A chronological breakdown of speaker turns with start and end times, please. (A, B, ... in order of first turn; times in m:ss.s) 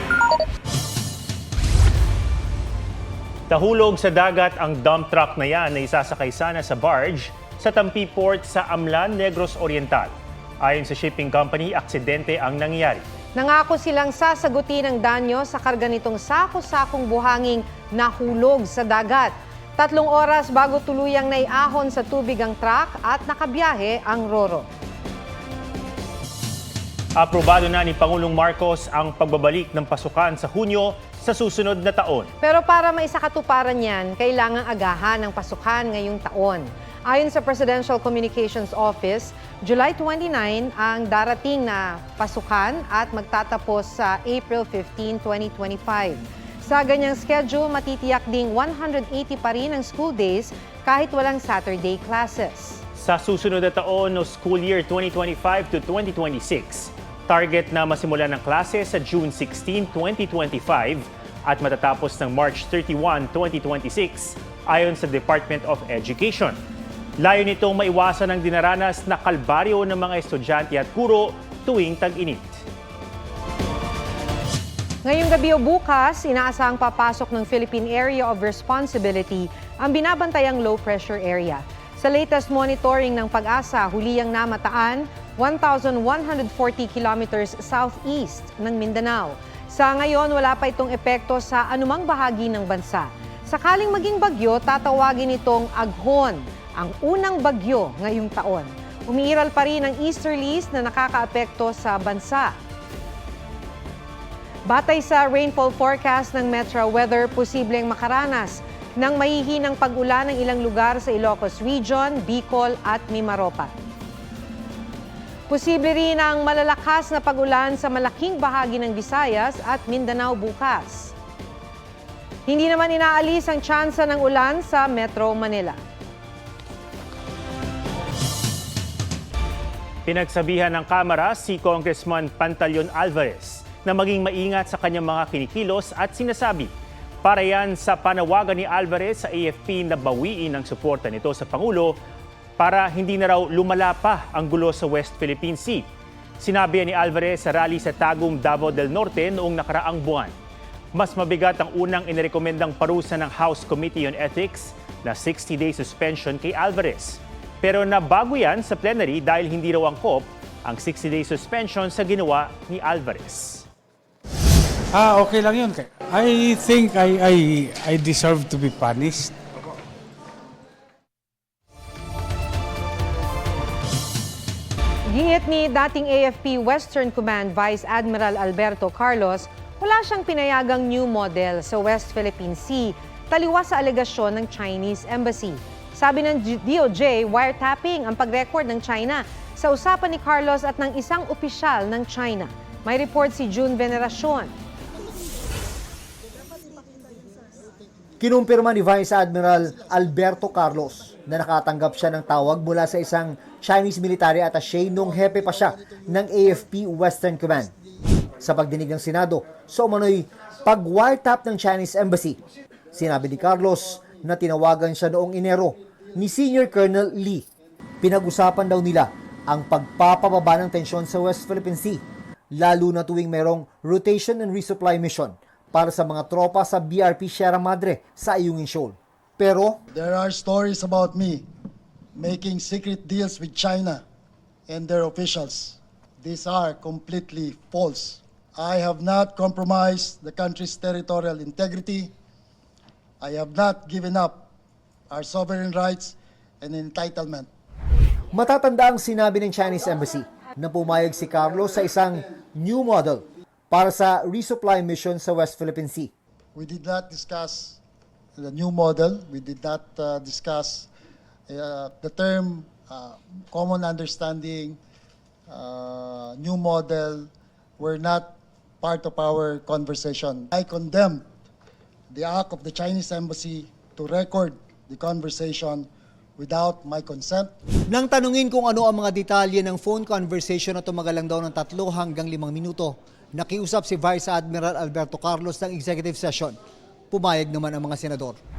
0:03.5-0:13.0 A
0:13.4-0:24.7 B
0:27.2-0:32.3 A
0:32.4-0:52.8 B
0:53.0-1:06.6 A
1:07.2-1:12.5 A
1:15.0-1:42.5 B
1:44.7-1:53.7 B
1:55.5-2:01.1 B
2:02.5-2:05.8 B
2:10.1-2:16.7 A
2:17.2-2:22.0 A
2:22.6-2:25.9 A
2:26.4-2:30.3 A
2:30.9-2:43.6 A
2:44.9-2:49.3 C
2:55.1-3:14.5 B
3:18.2-3:27.7 D
3:28.4-3:32.4 D
3:32.9-3:37.4 D
3:38.0-3:49.8 D
3:49.9-3:51.5 E
3:52.2-3:54.0 E
3:54.7-4:02.1 E
4:03.2-4:04.5 E
4:05.1-4:07.5 E
4:08.3-4:16.1 D
4:16.6-4:17.8 E
4:18.4-4:20.9 E
4:21.5-4:24.8 E
4:25.5-4:31.2 E
4:32.1-4:35.9 E
4:36.4-4:37.5 E
4:37.9-4:46.6 D
4:47.1-4:48.4 D